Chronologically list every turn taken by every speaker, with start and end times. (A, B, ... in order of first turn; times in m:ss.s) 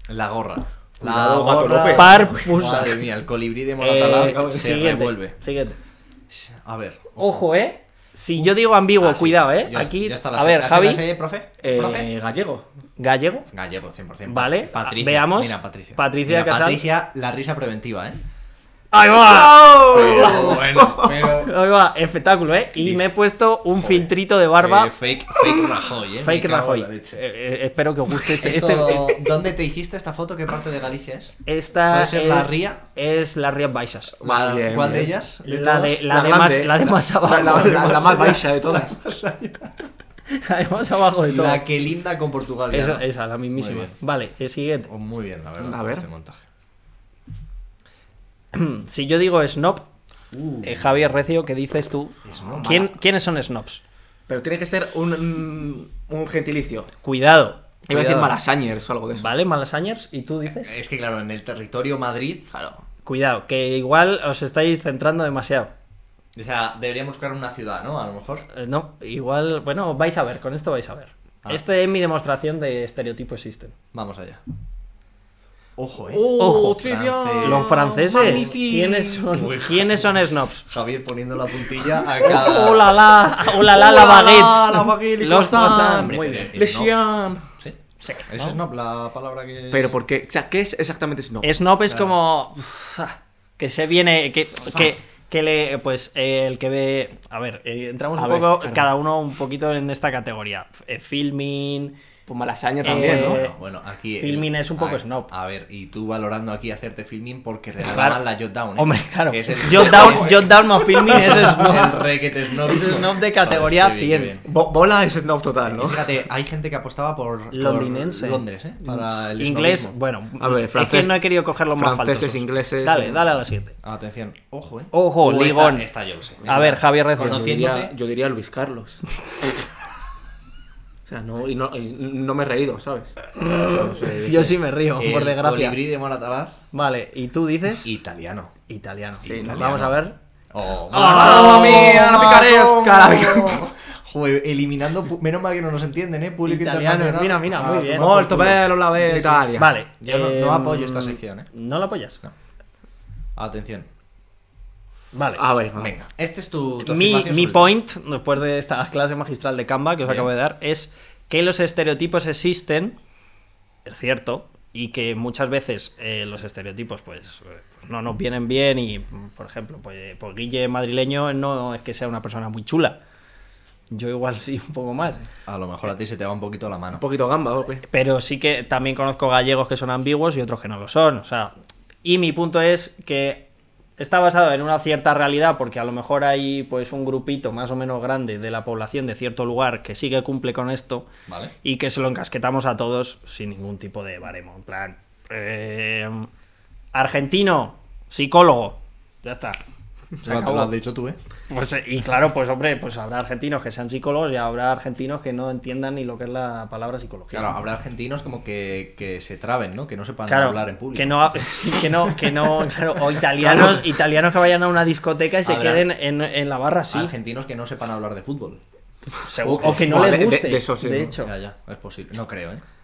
0:00.1-0:05.4 A
0:01.0-0:02.4 B
0:01.9-0:03.0 C
0:03.8-0:05.8 C
0:06.3-0:07.4 A
0:07.2-0:11.0 C
0:08.4-0:12.1 A
0:11.6-0:12.7 B
0:13.0-0:13.5 C
0:13.5-0:18.2 A
0:14.3-0:16.8 C
0:18.9-0:25.0 C
0:19.2-0:21.3 B
0:19.8-0:21.5 A
0:22.8-0:23.1 A
0:23.8-0:27.2 A
0:26.2-0:29.2 C
0:28.4-0:31.4 A
0:31.5-0:34.2 C
0:31.9-0:32.8 A
0:34.2-0:36.1 A
0:34.2-0:35.1 B
0:35.4-0:38.3 C
0:36.1-0:39.0 B
0:37.3-0:39.7 A
0:40.3-0:41.6 C
0:41.3-0:43.9 A
0:42.7-0:44.9 C
0:44.9-0:46.4 A
0:45.6-0:46.1 B
0:48.5-0:49.9 C
0:50.3-0:50.9 A
0:50.6-0:53.8 C
0:52.2-0:52.8 A
0:52.5-0:52.9 B
0:54.3-0:56.9 B
0:57.0-0:58.4 C
0:57.9-0:59.3 B
0:59.1-1:00.8 C
1:00.6-1:02.5 A
1:02.5-1:02.8 B
1:03.0-1:05.7 C
1:06.4-1:08.5 A
1:08.5-1:13.7 C
1:13.9-1:14.4 A
1:15.8-1:18.6 A
1:16.1-1:19.3 B
1:16.4-1:16.8 C
1:17.4-1:20.6 C
1:19.3-1:23.1 A
1:22.2-1:26.5 C
1:23.6-1:27.4 B
1:25.7-1:30.0 A
1:28.0-1:28.6 C
1:29.7-1:31.7 B
1:31.4-1:42.0 C
1:38.2-1:38.9 B
1:42.3-1:43.4 B
1:42.8-1:43.6 C
1:42.9-1:54.4 A
1:44.2-1:45.3 C
1:47.9-1:48.2 C
1:48.8-1:52.1 C
1:52.6-1:54.4 C
1:54.4-1:56.0 B
1:55.7-2:00.0 A
1:57.5-2:03.8 C
2:00.4-2:03.2 B
2:03.8-2:08.0 A
2:04.9-2:05.9 C
2:06.4-2:07.6 C
2:07.2-2:09.5 B
2:11.1-2:14.6 B
2:13.4-2:15.8 C
2:15.0-2:16.6 A
2:16.7-2:17.9 C
2:17.8-2:18.5 A
2:18.7-2:20.2 C
2:19.2-2:19.7 B
2:19.2-2:20.0 A
2:20.5-2:28.7 A
2:20.9-2:23.7 B
2:21.0-2:21.9 C
2:26.4-2:32.2 C
2:27.8-2:29.8 B
2:30.0-2:31.5 A
2:33.4-2:33.9 A
2:35.1-2:35.4 C
2:35.4-2:35.9 B
2:35.8-2:37.7 A
2:36.8-2:43.0 C
2:43.8-2:53.0 C
2:53.9-2:55.3 C
2:55.5-2:57.0 A
2:57.0-2:57.8 B
2:57.9-3:01.5 C
3:02.0-3:03.5 C
3:04.0-3:11.1 C
3:11.3-3:11.5 A
3:11.6-3:16.3 C
3:16.9-3:19.6 C
3:20.2-3:20.7 C
3:20.2-3:21.2 A
3:21.5-3:27.5 C
3:27.3-3:32.7 A
3:30.3-3:37.1 C
3:33.4-3:33.8 B
3:35.4-3:35.9 A
3:36.9-3:38.6 A
3:39.2-3:41.3 C
3:39.4-3:41.2 B
3:41.2-3:42.6 A